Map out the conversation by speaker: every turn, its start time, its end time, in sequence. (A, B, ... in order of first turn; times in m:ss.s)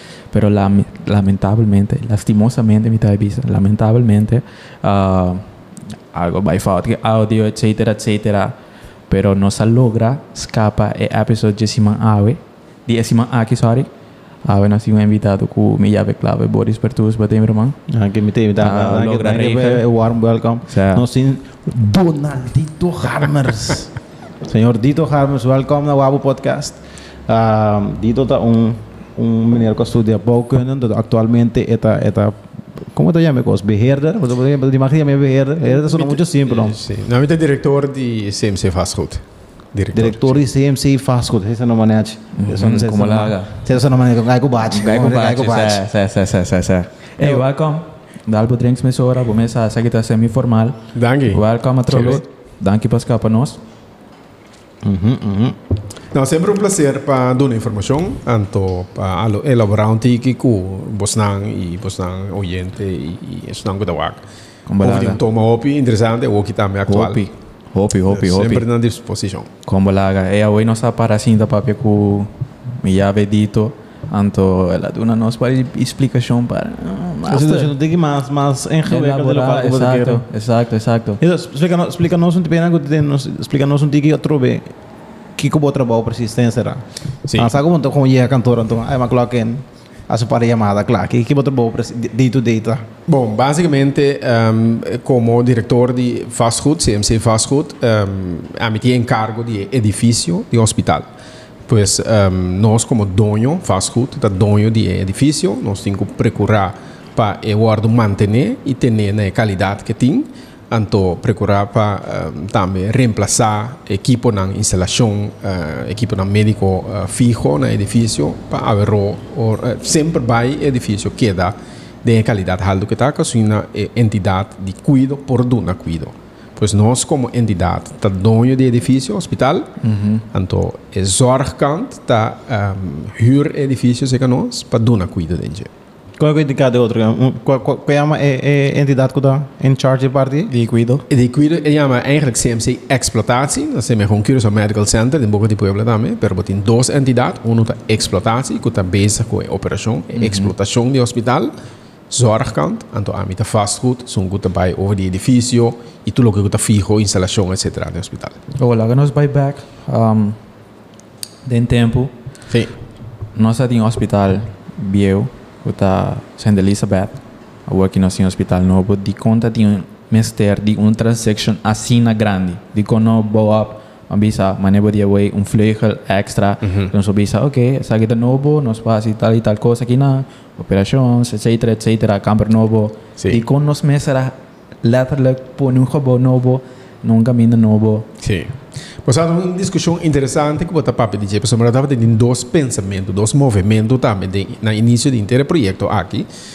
0:00.3-0:05.5 A
0:06.1-0:08.6 A
0:09.1-0:13.9 A
0:14.4-0:17.8 A
0:17.9-0:36.8 B
0:18.6-0:19.8 A
0:20.7-0:21.0 A
0:35.9-0:40.4 C
0:39.9-0:45.8 B
0:42.3-0:43.6 A
0:44.7-0:50.8 A
0:50.9-0:52.2 C
0:51.3-0:53.6 A
0:54.8-0:55.6 B
0:56.1-1:04.2 C
1:04.7-1:05.2 A
1:04.8-1:07.2 C
1:06.9-1:08.6 A
1:08.1-1:09.5 C
1:09.6-1:17.7 A
1:17.3-1:20.3 B
1:18.8-1:21.2 A
1:21.2-1:24.7 B
1:25.4-1:32.9 B
1:33.1-1:41.1 C
1:41.7-2:09.7 C
2:09.8-2:10.2 A
2:10.3-2:15.7 C
2:16.2-2:20.5 B
2:20.6-2:21.0 A
2:21.1-2:31.5 C
2:30.1-2:30.5 A
2:32.1-2:38.4 C
2:38.6-2:40.4 A
2:41.4-2:42.1 A
2:42.5-2:42.8 C
2:43.4-3:08.1 A
2:56.6-2:56.9 C
3:08.2-3:16.3 C